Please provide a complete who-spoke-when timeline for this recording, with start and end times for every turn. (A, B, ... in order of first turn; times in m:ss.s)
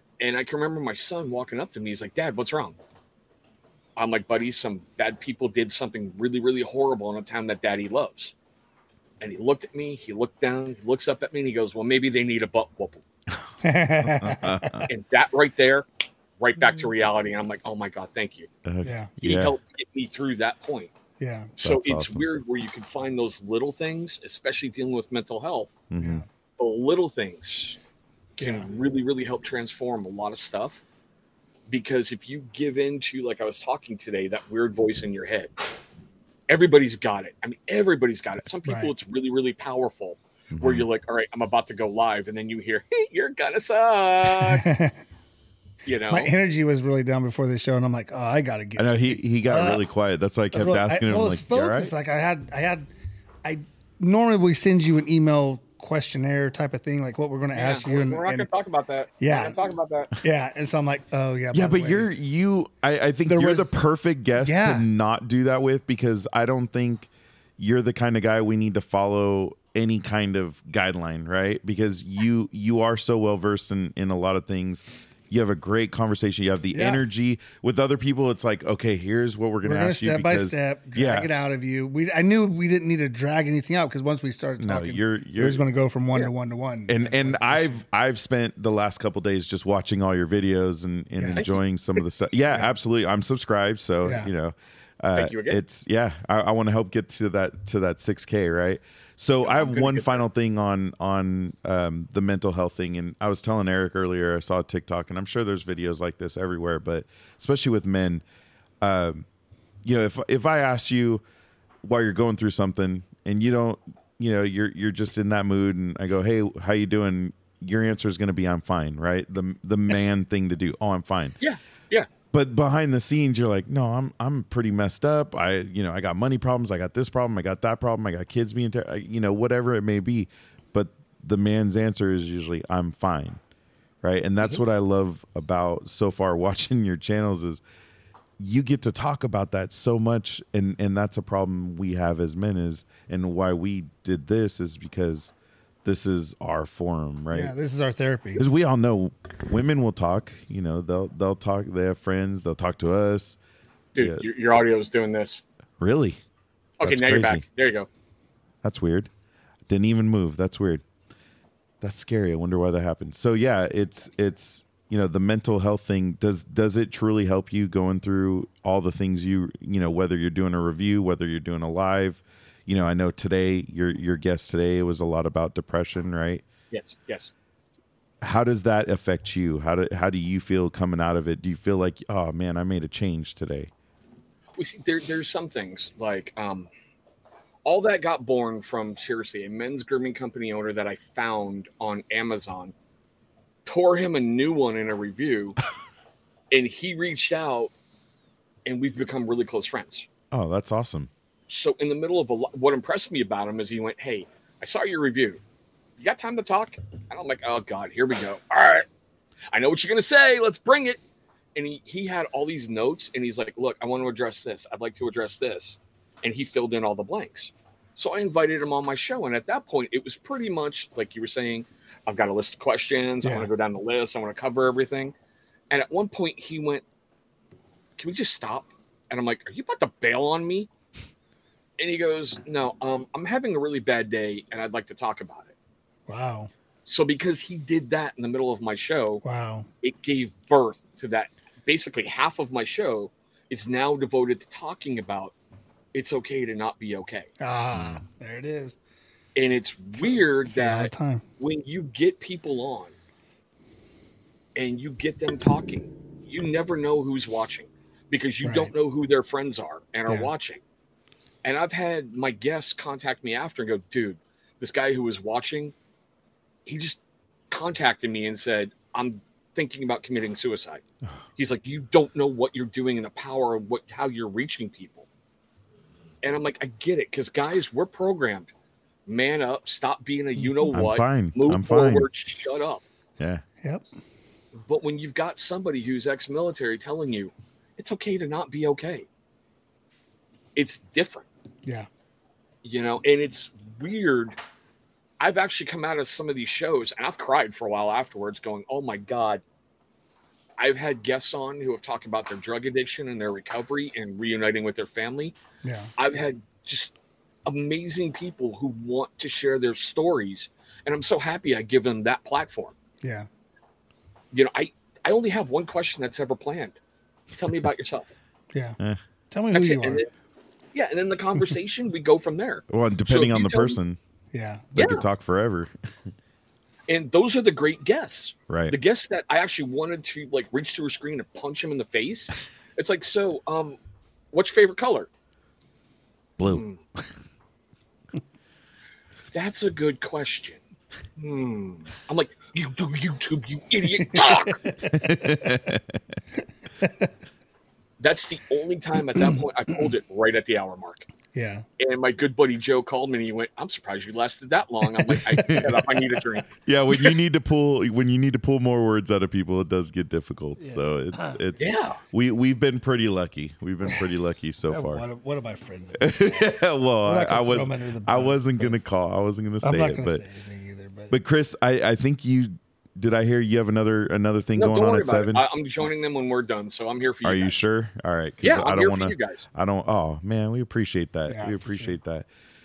0:00.2-0:02.8 A
0:04.0-0:08.3 A
0:09.2-0:13.0 A
0:13.6-0:14.8 B
0:14.0-0:14.9 C
0:14.9-0:15.9 A
0:16.4-0:18.5 A
0:18.6-0:19.6 C
0:18.8-0:19.1 B
0:19.2-0:20.9 A
0:21.2-0:21.5 B
0:21.6-0:25.8 A
0:21.6-0:22.2 C
0:25.9-0:26.2 C
0:26.0-0:26.3 B
0:26.6-0:27.8 A
0:28.4-0:28.7 B
0:28.4-0:30.8 A
0:31.7-0:35.5 A
0:36.5-0:44.7 A
0:38.7-0:38.9 B
0:40.5-0:40.9 C
0:44.4-0:45.0 B
0:45.8-0:46.3 A
0:46.1-0:49.8 B
0:48.8-0:51.9 C
0:50.5-0:52.9 B
0:53.4-0:58.5 B
0:57.5-1:00.1 A
0:59.2-0:59.6 B
1:00.2-1:02.1 B
1:01.5-1:21.3 C
1:03.3-1:03.8 B
1:04.4-1:04.9 B
1:16.7-1:17.0 B
1:19.6-1:27.8 B
1:24.6-1:25.6 C
1:26.9-1:48.2 C
1:31.2-1:31.4 B
1:31.4-1:31.6 A
1:34.0-1:34.3 B
1:35.2-1:35.6 A
1:39.4-1:40.2 A
1:48.8-1:49.2 C
1:49.8-1:51.2 C
1:51.8-2:01.4 C
2:01.4-2:02.1 A
2:02.3-2:13.4 C
2:14.0-2:17.6 C
2:18.4-2:25.3 C
2:25.8-2:27.5 C
2:27.3-2:28.4 B
2:28.4-2:33.4 C
2:34.0-2:35.4 A
2:34.0-2:34.2 C
2:35.8-2:36.2 C
2:36.8-2:37.9 A
2:36.8-2:37.4 C
2:38.6-2:39.1 C
2:39.7-2:40.8 C
2:41.8-2:56.4 C
2:56.7-2:57.3 A
2:58.2-3:03.7 C
3:04.6-3:06.7 A
3:07.6-3:12.7 A
3:13.7-3:15.6 A
3:16.5-3:17.7 A
3:18.7-3:20.1 A
3:20.3-3:21.1 C
3:21.5-3:25.4 A
3:26.0-3:28.9 A
3:29.5-3:31.0 A
3:31.6-3:45.2 A
3:43.2-3:43.5 B
3:45.7-3:46.8 A
3:48.0-3:50.7 A
3:51.8-3:55.5 A
3:56.1-3:56.5 B
3:56.9-3:59.2 A
3:59.2-3:59.7 B
3:59.8-4:05.3 A
4:05.9-4:07.3 A
4:07.4-4:08.8 B
4:07.7-4:08.0 C
4:09.4-4:12.9 A
4:10.0-4:11.2 B
4:14.6-4:20.6 A
4:18.4-4:18.7 B
4:21.4-4:25.7 A
4:26.7-4:30.8 A
4:31.4-4:35.1 A
4:36.2-4:38.5 A
4:39.1-4:42.8 A
4:40.4-4:40.7 B
4:40.7-4:42.1 C
4:44.6-4:49.1 A
4:50.6-4:51.3 A
4:52.6-4:54.4 A
4:55.2-4:59.4 A
5:00.6-5:05.4 A
5:05.6-5:05.9 B
5:06.0-5:06.9 A
5:07.5-5:12.8 A
5:13.0-5:13.3 B
5:14.3-5:16.8 A
5:17.4-5:18.1 A
5:19.3-5:20.0 B
5:19.5-5:20.1 A
5:20.7-5:23.8 A
5:22.7-5:24.0 C
5:24.3-5:24.7 B
5:24.8-5:25.7 C
5:24.8-5:25.1 A
5:26.9-5:33.8 A
5:28.5-5:28.8 C
5:34.3-5:35.1 A
5:36.4-5:37.0 C
5:36.4-5:36.8 A
5:39.3-5:40.6 A
5:41.2-5:44.6 A
5:44.0-5:45.7 B
5:44.9-5:46.0 C
5:46.8-5:47.1 B
5:48.0-5:51.1 A
5:51.3-5:51.7 B
5:51.8-5:56.5 A
5:55.0-5:55.7 B
5:55.5-5:55.8 C
5:56.7-6:05.0 C
6:00.6-6:01.4 B
6:01.6-6:02.0 A
6:04.7-6:06.5 B
6:06.0-6:10.2 C
6:07.0-6:08.7 B
6:09.6-6:11.1 B
6:11.1-6:15.4 C
6:14.6-6:17.6 A
6:17.2-6:22.3 C
6:18.4-6:19.5 A
6:21.3-6:22.0 B